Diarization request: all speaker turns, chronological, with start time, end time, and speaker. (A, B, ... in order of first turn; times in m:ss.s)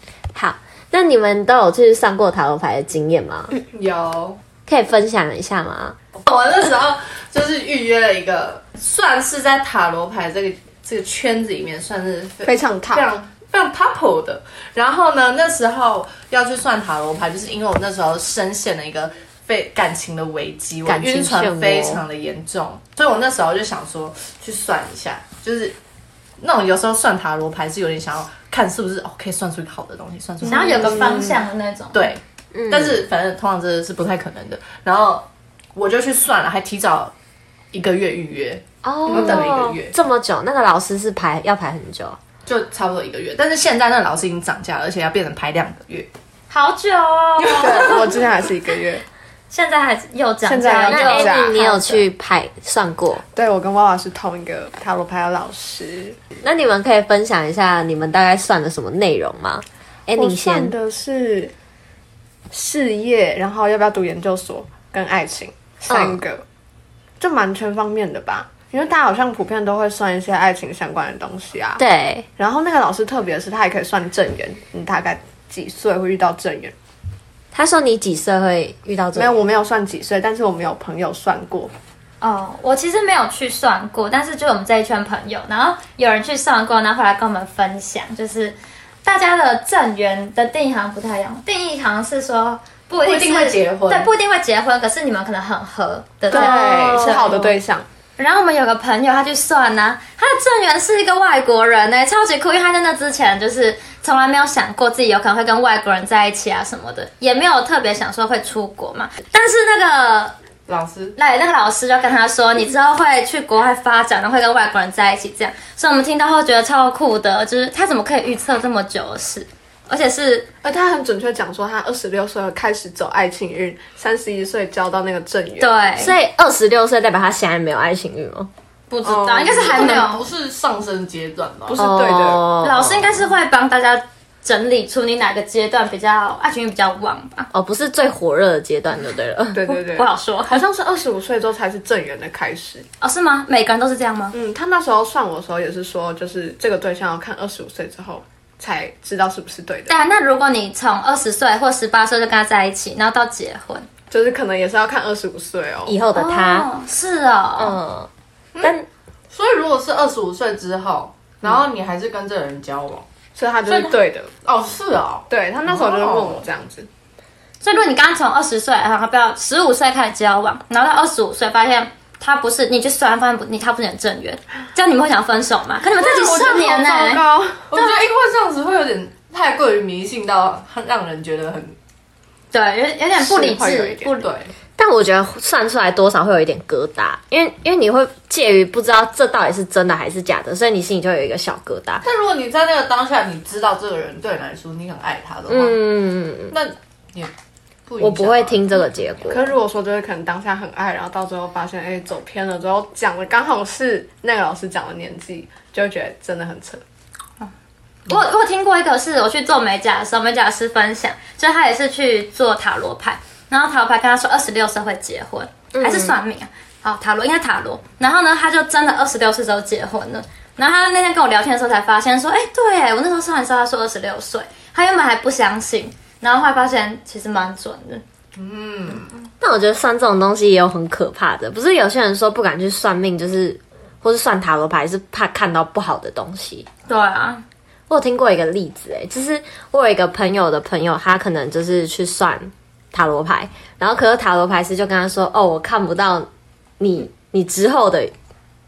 0:00.3-0:03.5 A
0:03.7-0:04.4 B
0:04.6-0:06.0 A
0:06.1-0:25.8 B
0:12.4-0:13.1 C
0:20.8-0:22.0 A
0:26.4-0:31.4 B
0:30.4-0:32.1 D
0:30.8-0:31.2 C
0:31.9-0:37.1 B
0:32.5-0:33.0 A
0:37.7-0:39.9 B
0:38.8-0:42.2 A
0:42.4-0:46.1 B
0:46.5-0:48.0 D
0:47.4-0:48.0 B
0:47.5-0:49.0 C
0:49.5-0:52.0 D
0:50.4-0:51.7 C
0:50.8-0:53.2 A
0:53.3-0:56.2 C
0:56.4-1:00.7 A
1:00.2-1:01.5 C
1:02.5-1:06.4 C
1:05.9-1:06.2 A
1:07.2-1:11.8 C
1:11.8-1:12.2 A
1:12.4-1:16.7 C
1:17.5-1:19.3 A
1:19.1-1:21.7 C
1:22.2-1:37.5 D
1:33.0-1:34.1 B
1:36.3-1:37.8 C
1:36.3-1:37.2 A
1:38.2-1:50.4 D
1:50.7-1:51.2 B
1:51.2-2:00.5 D
2:00.6-2:05.7 C
2:05.6-2:06.2 D
2:06.0-2:08.5 A
2:08.9-2:10.2 D
2:09.0-2:10.0 C
2:09.4-2:11.9 B
2:11.7-2:12.4 C
2:11.8-2:13.2 A
2:12.6-2:17.5 D
2:17.5-2:19.7 A
2:19.5-2:22.9 C
2:19.9-2:20.6 D
2:23.0-2:24.4 D
2:24.3-2:30.0 C
2:29.9-2:33.9 D
2:34.1-2:36.0 C
2:35.8-2:36.7 A
2:36.1-2:37.8 D
2:37.6-2:38.1 A
2:38.6-2:38.9 A
2:39.3-2:43.1 B
2:43.4-2:44.3 C
2:44.4-2:46.4 B
2:45.3-2:46.9 C
2:47.6-2:57.2 D
2:56.0-2:57.7 C
2:56.1-2:56.8 B
2:57.7-3:01.8 B
3:02.5-3:04.3 D
3:03.2-3:04.2 C
3:04.2-3:04.5 B
3:04.8-3:12.0 A
3:12.0-3:15.8 B
3:15.5-3:16.5 A
3:16.5-3:17.3 B
3:17.9-3:18.6 B
3:18.0-3:19.4 A
3:19.3-3:26.8 C
3:28.1-3:48.0 D
3:35.7-3:36.1 A
3:48.4-3:49.2 B
3:49.4-3:56.7 A
3:56.9-3:57.4 D
3:57.9-4:06.3 A
4:06.8-4:08.1 A